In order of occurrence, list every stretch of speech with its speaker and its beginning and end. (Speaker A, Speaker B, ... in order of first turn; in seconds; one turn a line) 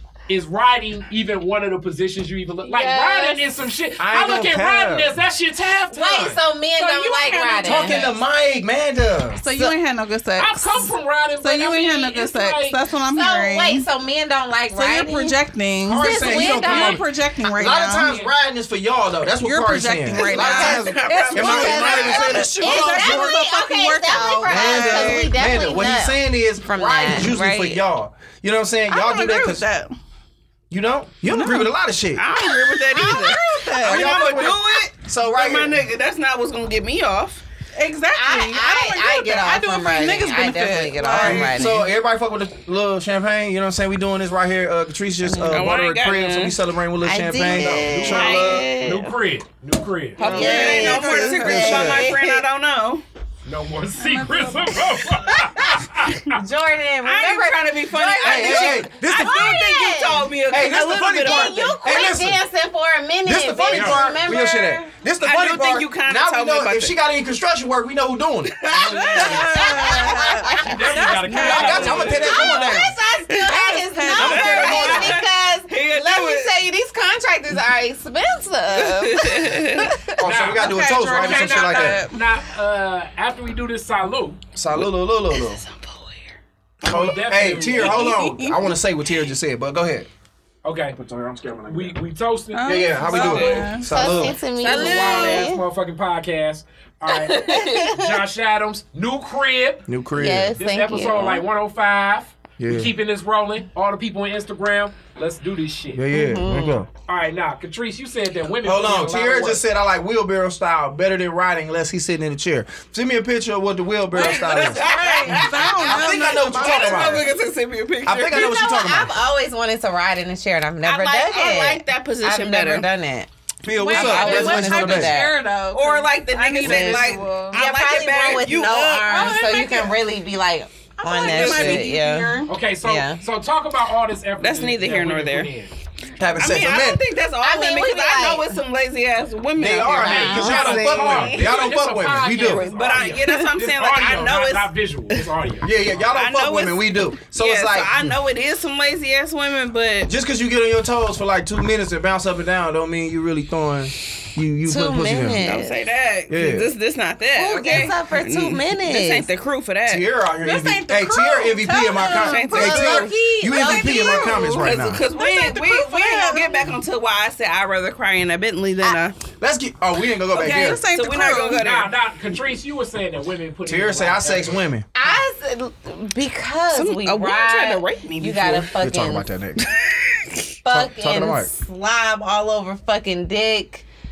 Speaker A: 0.3-6.4
Speaker B: 2.6-3.5
Speaker C: 4.0-5.1
Speaker B: 5.9-8.1
Speaker D: 6.8-8.1
Speaker C: 7.6-9.4
Speaker D: 9.4-13.9
Speaker A: 10.4-12.8
Speaker B: 13.1-15.4
Speaker D: 14.7-18.1
Speaker C: 15.8-23.4
Speaker B: 15.9-17.0
Speaker A: 17.9-18.3
Speaker D: 19.4-25.3
Speaker B: 20.1-27.8
Speaker E: 20.3-22.2
Speaker C: 24.4-29.6
Speaker D: 28.9-29.9
Speaker C: 30.7-32.2
Speaker D: 31.3-31.7
Speaker E: 32.1-37.4
Speaker D: 32.6-34.5
Speaker C: 33.8-35.8
Speaker D: 37.8-41.8
Speaker B: 38.1-41.8
Speaker C: 41.1-48.7
Speaker B: 45.2-45.7
Speaker E: 45.5-46.5
Speaker B: 47.0-49.1
Speaker A: 47.9-50.7
Speaker E: 48.1-48.6
Speaker E: 50.2-53.0
Speaker B: 50.2-52.4
Speaker D: 50.2-51.9
Speaker C: 51.3-52.1
Speaker A: 53.5-56.4
Speaker D: 54.0-55.0
Speaker B: 56.3-60.3
Speaker E: 57.0-61.8
Speaker C: 58.2-59.5
Speaker C: 60.5-62.4
Speaker B: 61.2-64.9
Speaker C: 63.2-70.1
Speaker A: 63.7-64.0
Speaker E: 65.2-67.0
Speaker E: 68.6-70.2
Speaker D: 68.8-72.6
Speaker B: 69.0-70.7
Speaker A: 70.6-72.4
Speaker C: 71.3-72.9
Speaker B: 71.4-79.8
Speaker E: 71.4-72.2
Speaker E: 73.3-73.5
Speaker D: 73.4-75.2
Speaker E: 74.1-76.6
Speaker E: 78.7-79.9
Speaker C: 80.2-82.0
Speaker A: 80.2-84.4
Speaker D: 80.5-82.2
Speaker C: 84.5-85.6
Speaker E: 85.3-86.2
Speaker A: 86.8-88.3
Speaker C: 86.8-90.1
Speaker D: 87.7-88.7
Speaker A: 90.6-91.0
Speaker C: 90.9-92.0
Speaker A: 91.6-99.9
Speaker D: 92.5-93.9
Speaker C: 92.6-94.4
Speaker E: 93.1-93.6
Speaker B: 93.8-95.6
Speaker E: 94.6-95.5
Speaker E: 97.1-97.8
Speaker C: 99.9-100.5
Speaker B: 100.1-101.4
Speaker A: 100.5-106.0
Speaker C: 102.6-102.9
Speaker C: 105.9-106.9
Speaker B: 106.1-106.8
Speaker A: 107.0-109.6
Speaker C: 108.6-117.3
Speaker D: 114.1-117.3
Speaker E: 114.2-118.5
Speaker B: 115.0-115.2
Speaker C: 118.0-119.1
Speaker B: 118.3-123.3
Speaker E: 120.8-122.9
Speaker C: 123.6-125.2
Speaker D: 123.8-127.6
Speaker B: 123.9-125.3
Speaker E: 125.7-129.7
Speaker B: 126.6-133.2
Speaker D: 129.1-129.9
Speaker D: 131.0-132.5
Speaker E: 131.2-131.9
Speaker A: 132.5-135.7
Speaker E: 134.4-135.5
Speaker C: 136.2-137.0
Speaker E: 136.4-141.6
Speaker B: 137.4-138.6
Speaker C: 139.6-142.6
Speaker A: 139.9-145.7
Speaker B: 140.1-140.7
Speaker E: 142.4-145.2
Speaker C: 145.6-148.1
Speaker E: 146.1-150.1
Speaker C: 150.1-155.5
Speaker B: 154.6-155.8
Speaker E: 155.4-160.1
Speaker C: 156.3-156.7
Speaker B: 157.3-159.3
Speaker C: 159.9-165.0
Speaker D: 160.4-166.7
Speaker E: 162.1-163.1
Speaker B: 162.5-164.2
Speaker E: 164.6-169.2
Speaker C: 169.4-170.8
Speaker D: 170.3-171.6
Speaker E: 170.4-171.9
Speaker A: 171.6-174.6
Speaker C: 173.6-174.9
Speaker B: 174.9-179.3
Speaker E: 176.7-178.7
Speaker C: 178.6-179.6
Speaker E: 179.6-180.4
Speaker B: 180.6-183.9
Speaker C: 180.7-181.5